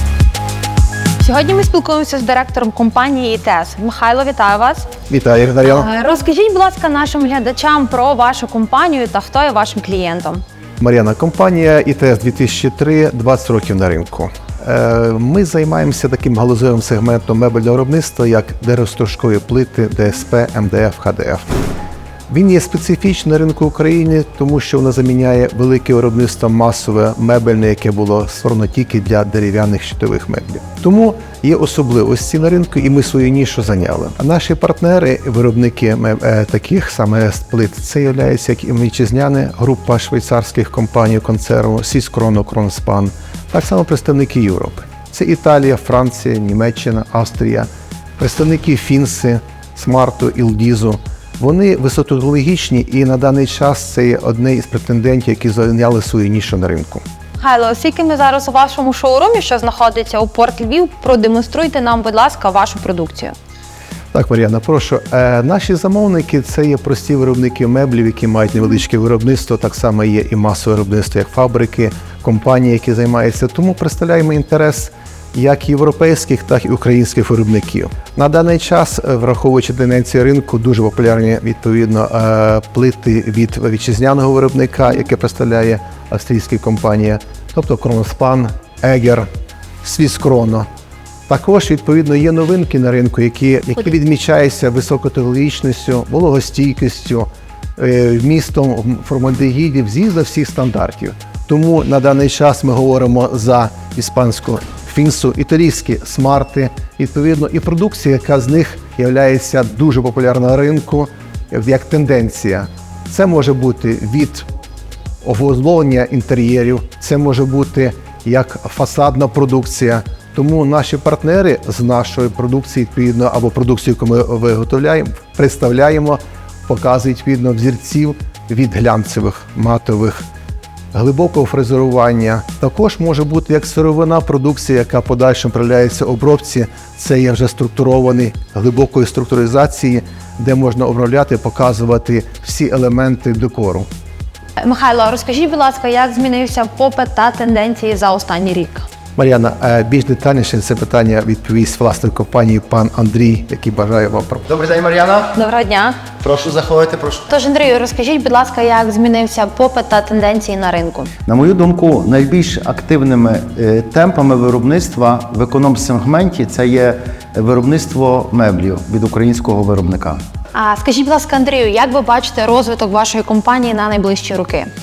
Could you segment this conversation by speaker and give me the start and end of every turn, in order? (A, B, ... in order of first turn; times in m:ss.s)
0:01.2-0:04.9 A
0:05.1-0:05.9 B
0:05.6-0:10.4 A
0:10.8-0:21.5 B
0:22.3-0:57.0 B
0:57.4-1:03.3 A
1:04.1-1:29.2 B
1:29.8-1:30.6 B
1:31.3-1:54.4 B
1:55.2-2:10.2 B
2:10.9-2:23.9 B
2:24.6-2:28.8 A
2:29.2-2:34.5 B
2:34.5-2:35.4 C
2:35.3-2:36.0 A
2:36.2-2:37.3 C
2:37.3-2:41.1 A
2:41.3-2:50.2 C
2:50.5-2:54.7 A